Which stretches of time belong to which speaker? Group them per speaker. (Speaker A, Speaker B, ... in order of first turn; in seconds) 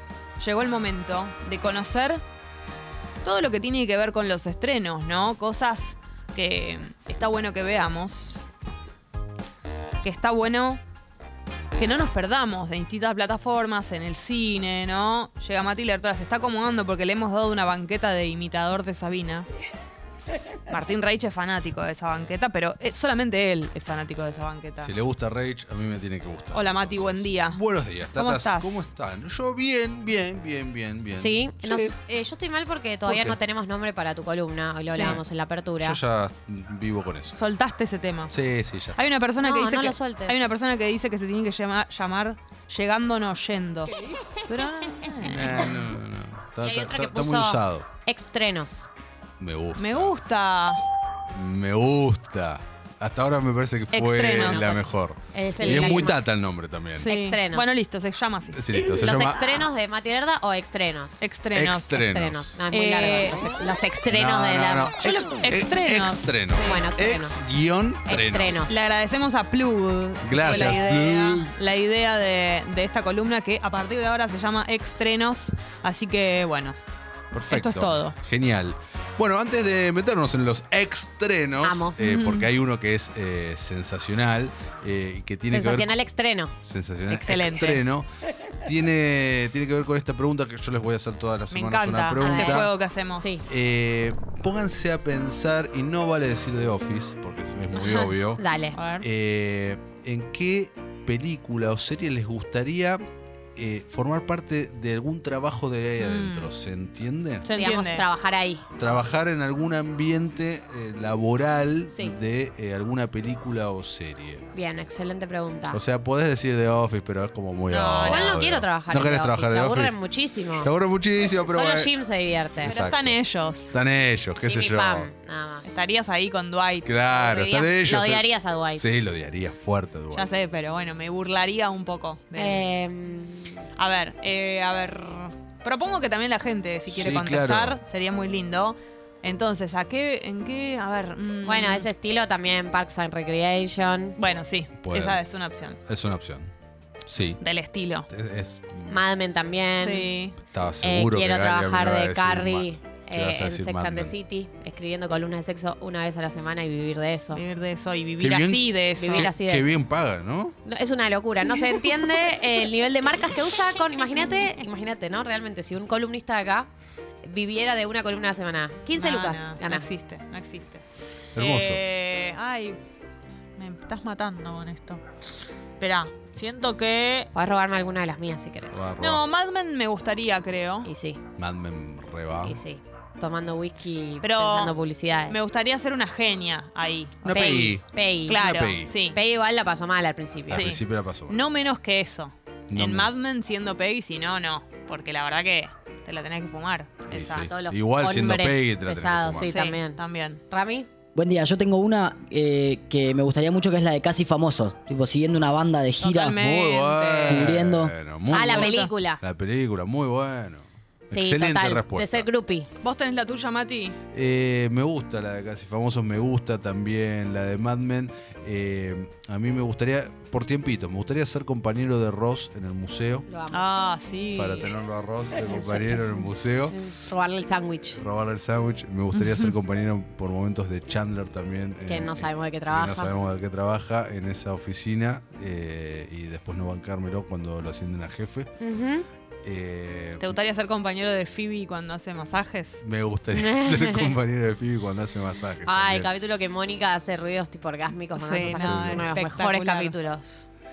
Speaker A: 0.4-2.2, 3.2-8.4, 10.0-10.8, 11.7-19.4, 20.7-24.9, 26.5-27.6, 28.1-28.9, 34.9-35.2, 37.3-38.3, 39.0-43.9, 44.5-45.7, 49.8-50.8, 53.9-54.8, 55.5-56.1, 57.0-59.2, 61.2-62.0, 62.7-63.5, 65.4-66.8, 68.7-76.8, 77.5-78.2, 82.0-82.5, 87.1-87.8, 91.5-93.4, 97.7-98.2, 98.7-99.1, 106.0-106.5, 107.4-108.1, 117.7-118.4, 122.6-123.8, 125.6-126.9, 130.1-132.6, 133.8-141.9, 144.2-145.8, 147.4-148.1, 149.8-150.3, 157.3-159.3, 168.9-170.8, 171.3-172.8, 173.6-175.1, 175.8-177.3, 179.0-180.9, 184.2-184.8, 185.3-187.7, 188.3-189.2, 190.5-197.5, 199.4-200.4, 206.0-207.6, 208.3-208.9, 212.8-213.9, 223.5-224.7, 229.1-229.5, 240.2-242.8, 248.2-249.9
Speaker B: 24.8-31.9, 33.0-33.4, 35.8-37.4, 38.3-39.0, 45.2-47.9, 49.4-50.1, 51.3-57.1, 58.5-59.6, 61.5-62.6, 64.1-68.8, 70.2-71.5, 77.3-85.9, 86.6-88.1, 88.6-92.7, 93.5-98.4, 99.0-103.0, 103.5-107.5, 108.8-114.5, 115.7-120.0, 120.6-121.9, 122.6-123.2, 123.7-125.1, 126.8-130.3, 136.9-137.8, 144.8-145.2, 145.8-146.5, 147.1-147.4, 148.1-149.0, 150.5-154.1, 158.2-160.5, 171.3-171.8, 178.7-179.2, 181.4-182.6, 187.2-188.9, 190.5-191.4, 192.7-193.1, 197.1-199.5, 206.3-212.3, 214.1-223.3, 224.3-226.8, 227.9-238.6, 239.4-240.3, 242.8-246.1, 248.5-249.1
Speaker C: 31.2-36.0, 39.4-40.5, 46.6-48.9, 54.2-54.8, 55.3-56.2, 57.0-57.8, 58.9-61.3, 61.9-65.2, 66.6-67.4, 68.0-68.9, 70.4-70.8, 81.6-82.1, 85.5-86.5, 92.2-93.5, 98.4-98.8, 107.5-109.0, 114.5-115.8, 118.0-120.7, 121.4-122.8, 124.4-125.7, 127.1-128.8, 132.3-133.7, 141.4-144.2, 148.9-150.1, 150.8-157.4, 159.0-159.7, 160.6-166.7, 167.2-169.8, 177.3-178.8, 180.8-181.2, 182.4-185.4, 187.3-188.4, 189.1-190.7, 197.3-200.9, 208.3-209.2, 211.1-212.7, 223.3-223.7, 225.4-228.0, 231.9-233.1, 238.6-239.1, 243.3-244.1, 245.7-250.4
Speaker D: 201.2-206.1, 207.3-207.8